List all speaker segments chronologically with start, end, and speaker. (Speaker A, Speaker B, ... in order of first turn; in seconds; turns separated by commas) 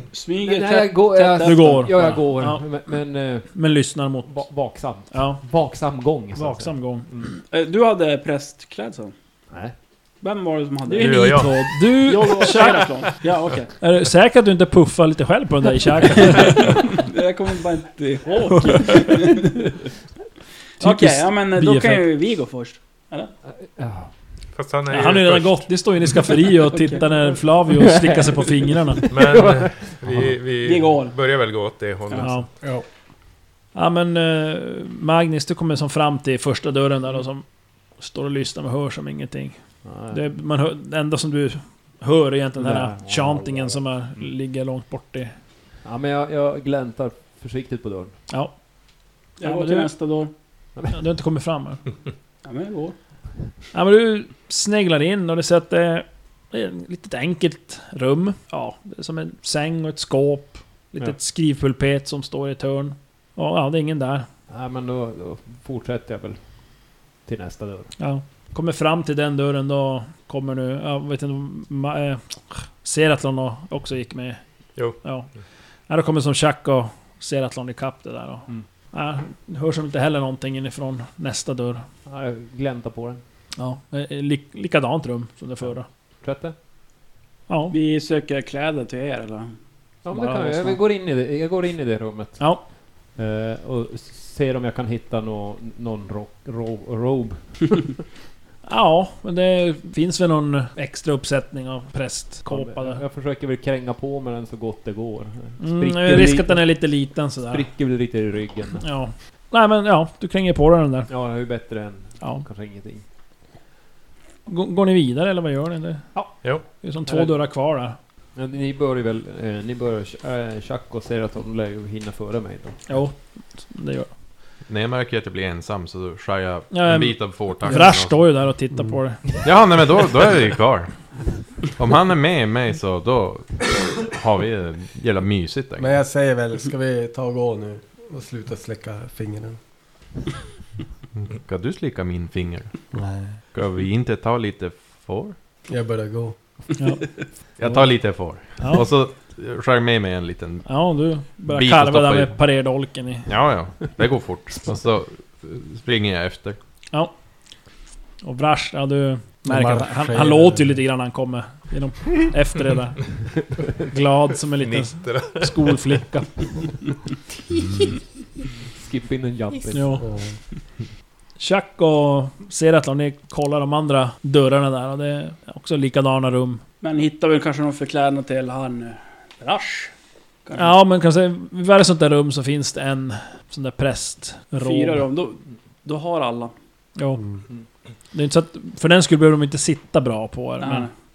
Speaker A: 0.1-2.2, Speaker B: 0.4-3.6, Speaker C: 1.4-2.6, Speaker C: 3.5-4.5, Speaker B: 4.2-7.3, Speaker C: 5.1-5.4, Speaker C: 6.3-7.1, Speaker A: 7.5-9.1, Speaker A: 10.2-11.4, Speaker C: 10.8-13.2, Speaker D: 11.0-11.5, Speaker E: 11.1-11.6, Speaker A: 12.1-13.7, Speaker C: 13.8-16.9, Speaker A: 16.3-19.6, Speaker C: 18.4-19.4, Speaker A: 20.8-23.3, Speaker C: 20.8-22.1, Speaker B: 23.5-24.1, Speaker D: 24.5-25.7, Speaker C: 24.9-29.1, Speaker A: 26.7-27.0, Speaker B: 27.7-30.3, Speaker D: 29.1-32.5, Speaker A: 30.6-31.1, Speaker C: 32.2-32.5, Speaker C: 33.7-45.3, Speaker B: 39.8-40.2, Speaker B: 42.6-44.3, Speaker B: 45.8-48.1, Speaker C: 48.3-48.6, Speaker A: 49.4-50.3, Speaker C: 49.4-49.9, Speaker B: 50.8-51.0, Speaker C: 50.9-51.8, Speaker A: 52.4-52.9, Speaker C: 53.7-64.3, Speaker B: 64.5-66.5, Speaker B: 67.2-67.9, Speaker C: 68.0-75.3, Speaker C: 75.9-81.8, Speaker B: 82.1-83.2, Speaker C: 83.6-85.9, Speaker B: 85.7-86.5, Speaker C: 87.5-87.7, Speaker A: 87.7-89.5, Speaker B: 90.0-97.9, Speaker C: 90.1-90.8, Speaker C: 92.4-92.6, Speaker C: 98.6-103.0, Speaker B: 102.5-108.8, Speaker C: 105.6-107.6, Speaker C: 108.8-111.1, Speaker B: 111.1-113.0, Speaker C: 112.2-112.4, Speaker C: 114.5-118.0, Speaker B: 116.1-116.5, Speaker B: 117.1-117.4, Speaker B: 118.3-122.9, Speaker C: 122.9-124.1, Speaker E: 124.7-128.5, Speaker C: 126.7-129.2, Speaker F: 128.7-129.0, Speaker E: 129.4-131.0, Speaker E: 131.7-135.9, Speaker F: 135.8-139.6, Speaker E: 141.2-142.9, Speaker F: 142.9-143.4, Speaker E: 143.5-145.3, Speaker F: 145.7-146.4, Speaker C: 146.8-147.1, Speaker E: 147.6-150.9, Speaker C: 148.6-148.8, Speaker C: 150.7-153.3, Speaker E: 151.4-152.5, Speaker E: 153.2-156.6, Speaker C: 158.2-163.2, Speaker F: 159.4-160.8, Speaker C: 163.8-166.7, Speaker D: 164.6-165.9, Speaker B: 168.8-170.0, Speaker C: 169.7-170.1, Speaker F: 170.0-170.3, Speaker C: 171.4-176.6, Speaker A: 176.8-179.9, Speaker A: 180.4-180.8, Speaker C: 180.6-185.1, Speaker A: 184.6-186.5, Speaker C: 188.1-190.9, Speaker A: 190.6-190.9